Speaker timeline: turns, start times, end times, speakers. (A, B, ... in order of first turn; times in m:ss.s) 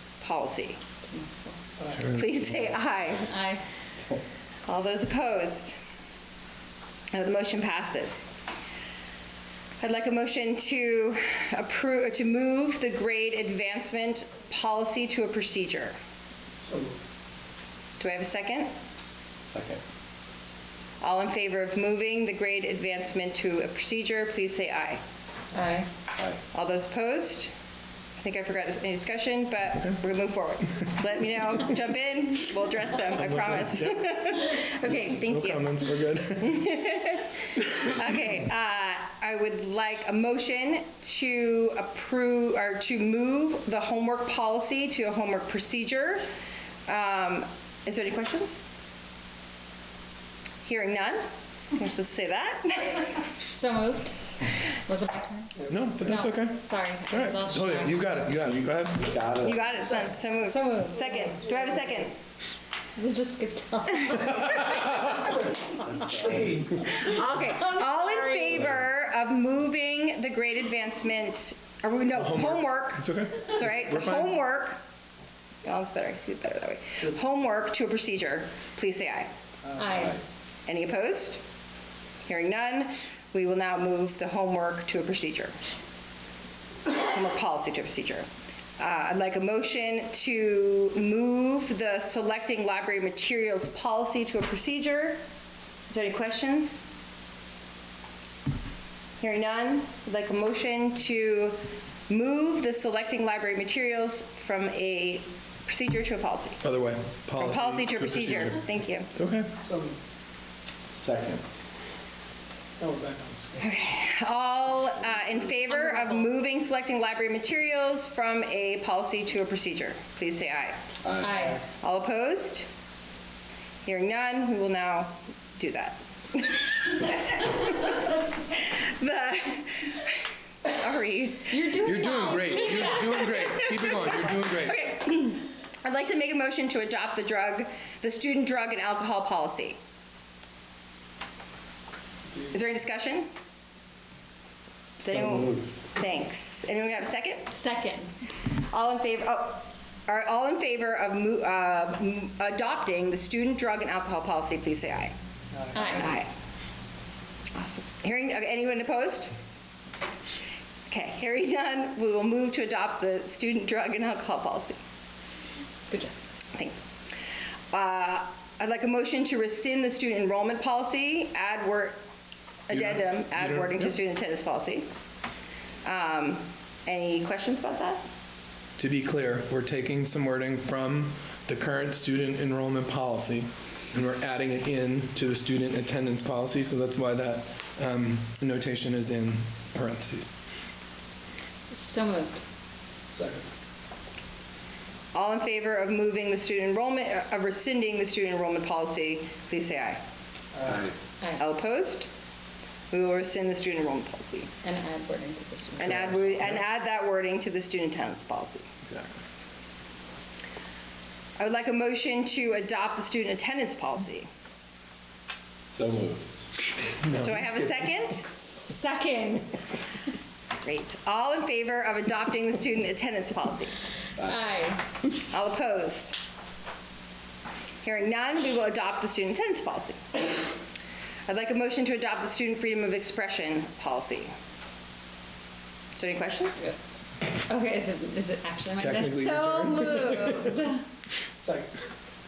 0:00.2-0:00.8 A
0:01.0-0:01.6 B
0:02.0-0:02.2 C
0:02.1-0:03.3 A
0:03.3-0:03.6 B
0:04.7-0:05.8 A
0:07.1-0:08.3 A
0:09.8-0:16.0 A
0:16.6-0:17.0 D
0:18.0-0:18.7 A
0:19.5-0:19.8 E
0:21.0-0:25.0 A
0:25.5-0:25.9 B
0:26.5-0:27.5 A
0:28.2-0:35.7 A
0:33.1-0:36.7 C
0:36.4-0:46.3 A
0:46.9-0:48.7 A
0:50.6-0:53.3 A
0:53.2-0:58.0 B
0:55.6-0:55.9 D
0:55.7-0:59.1 C
0:58.5-0:59.9 E
0:59.4-1:02.2 A
1:00.3-1:01.8 B
1:03.0-1:06.3 B
1:04.5-1:04.9 C
1:06.1-1:06.8 D
1:06.9-1:08.6 B
1:07.0-1:14.8 A
1:12.1-1:14.4 C
1:15.6-1:19.3 A
1:19.6-1:19.9 D
1:19.8-1:20.2 B
1:20.7-1:21.4 A
1:22.2-1:25.6 A
1:26.9-1:28.3 A
1:28.8-1:35.2 A
1:35.9-1:36.8 A
1:39.2-1:46.6 A
1:46.6-1:49.5 C
1:47.4-1:49.1 A
1:49.6-1:50.0 D
1:50.9-1:51.6 E
1:52.8-1:53.8 D
1:53.6-2:00.8 A
1:55.7-1:56.2 B
2:01.0-2:01.4 E
2:01.2-2:01.6 B
2:01.8-2:02.7 A
2:03.8-2:19.8 A
2:11.5-2:13.3 B
2:11.8-2:14.8 C
2:22.5-2:23.3 A
2:25.0-2:27.5 A
2:25.1-2:25.6 E
2:27.5-2:28.1 B
2:28.6-2:35.1 A
2:35.5-2:36.0 D
2:35.7-2:36.2 B
2:36.0-2:36.3 A
2:37.6-2:39.3 A
2:40.9-2:44.8 A
2:46.6-2:46.9 A
2:47.7-2:52.0 A
2:52.7-2:54.9 A
2:52.7-2:53.9 C
2:55.8-2:58.0 A
2:58.8-3:10.3 C
3:11.7-3:12.4 B
3:13.1-3:13.5 D
3:15.1-3:20.0 A
3:20.5-3:20.9 D
3:20.6-3:20.9 E
3:21.4-3:22.1 A
3:22.9-3:24.5 A
3:24.6-3:26.4 B
3:25.8-3:28.7 A
3:25.8-3:26.5 C
3:28.8-3:29.2 C
3:31.4-3:34.3 A
3:35.7-3:36.4 E
3:37.0-3:37.8 C
3:37.2-3:39.4 A
3:40.6-3:43.8 A
3:44.2-3:44.4 E
3:44.2-3:44.9 B
3:45.3-3:46.2 A
3:47.8-3:50.2 A
3:51.3-3:54.3 A
3:56.0-3:56.6 A
3:57.4-4:00.8 B
3:58.7-4:00.6 C
4:01.4-4:01.7 D